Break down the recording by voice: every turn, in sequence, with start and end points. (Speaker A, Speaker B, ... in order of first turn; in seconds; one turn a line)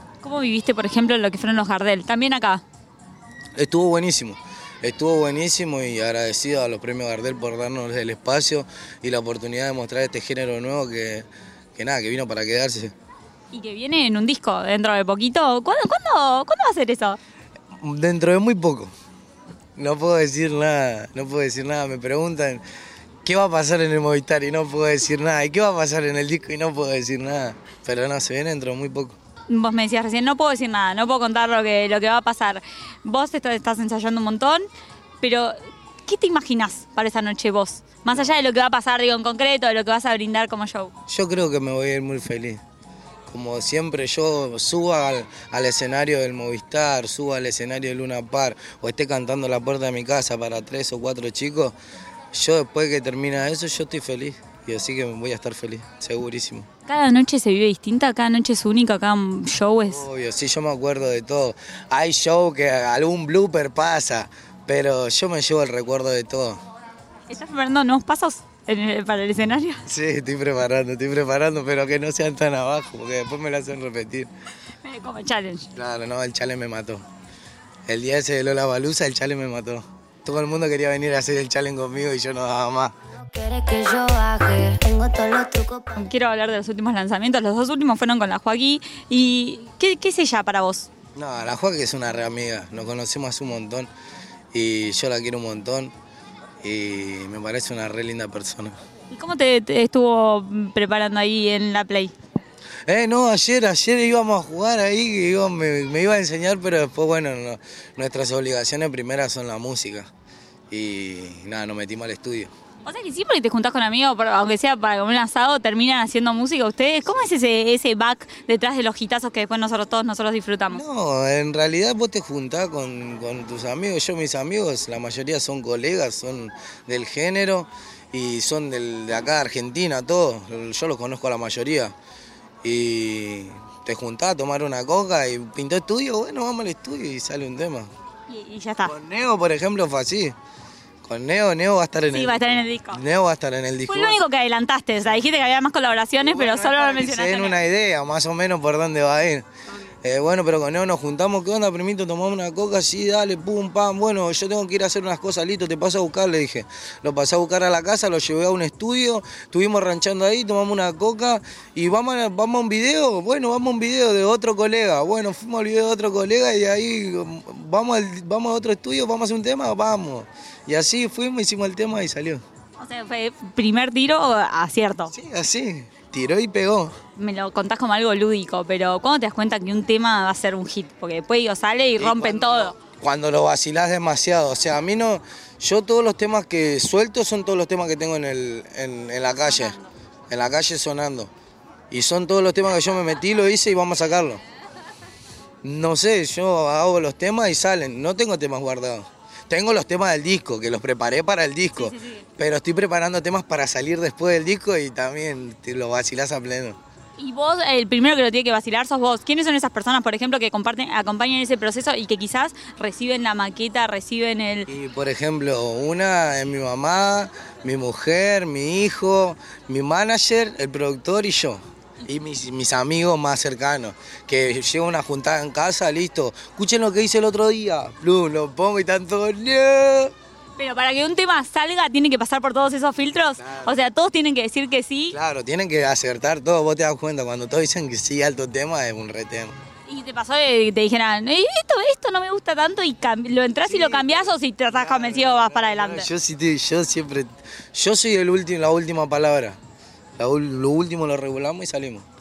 Speaker A: 0.2-2.6
Speaker B: 3.5-12.9
Speaker A: 13.5-17.2
Speaker B: 17.8-18.9
Speaker B: 19.8-22.6
Speaker B: 23.2-29.1
Speaker A: 29.5-34.7
Speaker A: 35.2-40.9
Speaker B: 38.1-38.3
Speaker B: 41.1-42.6
Speaker B: 43.3-51.8
Speaker B: 52.3-56.7
Speaker A: 56.9-60.0
Speaker B: 59.9-66.6
Speaker A: 67.3-69.8
Speaker B: 69.8-74.3
Speaker A: 74.8-75.7
Speaker B: 75.7-77.0
Speaker B: 77.9-82.9
Speaker C: 83.2-85.9
Speaker A: 85.9-90.9
Speaker B: 91.1-93.9
Speaker B: 94.5-95.9
Speaker B: 96.6-98.8
Speaker A: 99.1-102.1
Speaker B: 102.9-110.1
Speaker B: 110.7-112.5
Speaker A: 112.8-120.8
Speaker B: 120.7-131.9
Speaker B: 132.6-137.9
Speaker A: 138.3-138.9
Speaker B: 138.8-140.3
Speaker B: 141.0-144.2
Speaker A: 142.1-143.0
Speaker A: 143.9-147.6
Speaker B: 146.2-149.4
Speaker B: 150.0-172.4
Speaker A: 172.8-175.1
Speaker B: 175.1-176.9
Speaker A: 177.2-182.8
Speaker B: 182.0-189.8
Speaker A: 189.4-189.9
Speaker B: 190.3-191.3
Speaker B: 191.9-194.4
Speaker B: 195.6-206.8
Speaker A: 201.7-202.2
Speaker A: 207.2-214.7
Speaker B: 214.7-230.1
Speaker A: 230.6-235.2
Speaker B: 233.4-233.8
Speaker B: 235.1-239.5
Speaker A: 239.9-246.1
Speaker B: 243.6-249.6
Speaker B: 250.2-252.1